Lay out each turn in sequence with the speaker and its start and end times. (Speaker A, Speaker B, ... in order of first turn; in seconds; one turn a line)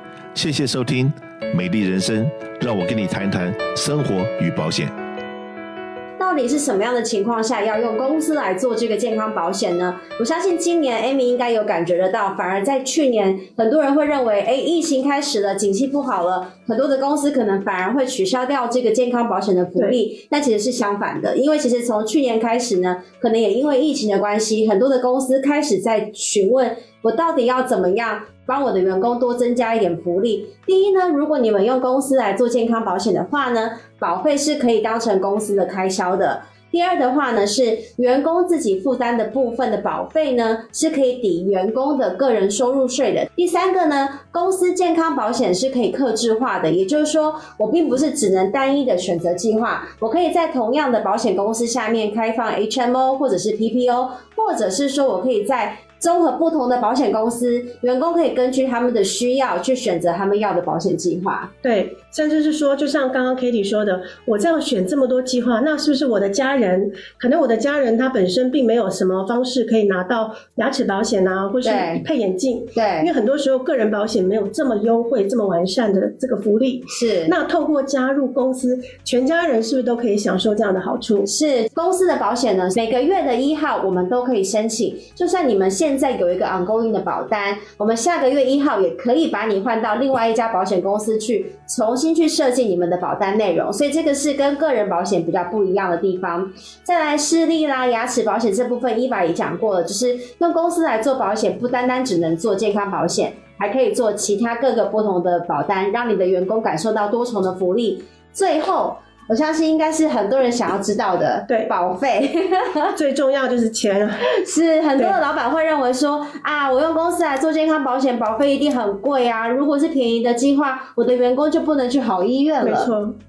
Speaker A: 0.3-4.9
Speaker B: 6.2-61.5
Speaker C: 19.8-20.0
Speaker C: 61.6-81.3
Speaker B: 71.6-72.0
Speaker B: 72.8-73.1
Speaker B: 76.9-77.4
Speaker B: 81.2-113.0
Speaker C: 111.5-111.7
Speaker C: 112.9-114.4
Speaker B: 114.2-122.9
Speaker C: 122.6-123.2